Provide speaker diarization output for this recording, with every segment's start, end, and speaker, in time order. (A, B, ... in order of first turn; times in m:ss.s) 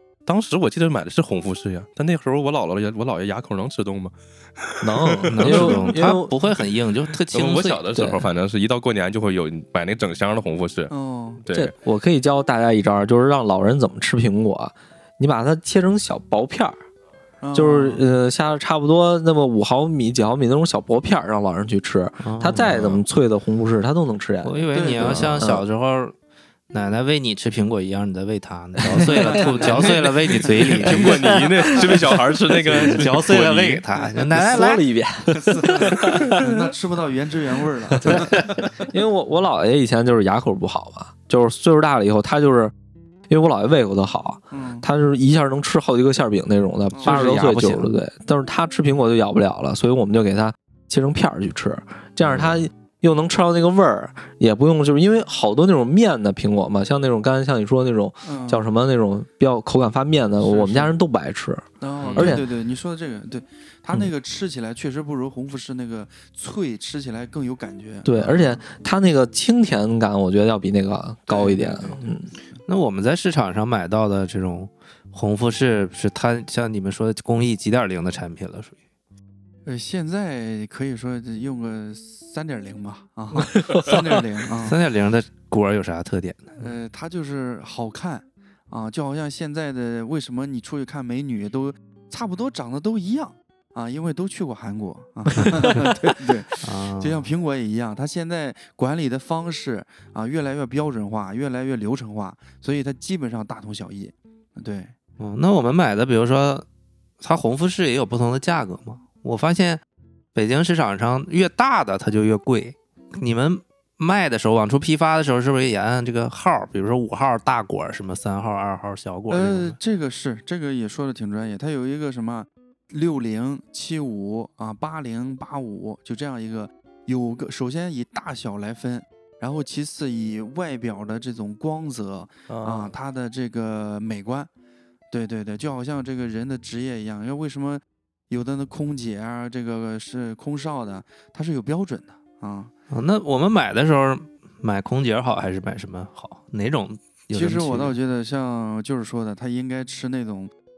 0:00.2-0:05.9 A
0:04.8-0:06.3 B
0:05.3-0:07.9 C
0:07.3-0:10.9 A
0:07.9-0:08.3 B
0:10.9-0:11.4 D
0:11.4-0:11.7 A
0:11.5-0:16.8 B
0:17.4-0:18.0 D
0:17.5-0:25.6 B
0:22.2-0:22.7 C
0:22.5-0:23.0 A
0:24.4-0:26.2 C
0:24.7-0:25.4 D
0:26.7-0:32.0 C
0:28.9-0:29.9 B
0:29.0-0:29.9 D
0:30.6-0:31.1 B
0:30.6-0:31.0 D
0:30.8-0:33.8 A
0:32.5-0:34.8 C
0:34.3-0:36.4 B
0:35.3-0:38.8 D
0:38.0-0:42.7 B
0:43.3-1:02.4 B
0:44.5-0:44.9 D
0:46.9-0:47.4 D
0:47.0-0:47.9 C
0:58.2-0:58.6 D
1:00.4-1:01.0 D
1:01.8-1:08.6 D
1:02.0-1:02.4 A
1:08.0-1:12.3 B
1:11.3-1:12.3 D
1:12.6-1:18.8 C
1:19.6-1:24.8 D
1:23.3-1:24.1 B
1:24.6-1:26.7 C
1:26.6-1:44.9 D
1:36.6-1:37.3 C
1:45.2-1:46.6 C
1:47.2-1:49.8 C
1:50.3-1:59.8 C
1:59.3-2:14.5 D
2:12.5-2:12.9 A
2:15.1-2:22.7 D
2:22.9-2:28.0 C
2:27.3-2:30.5 D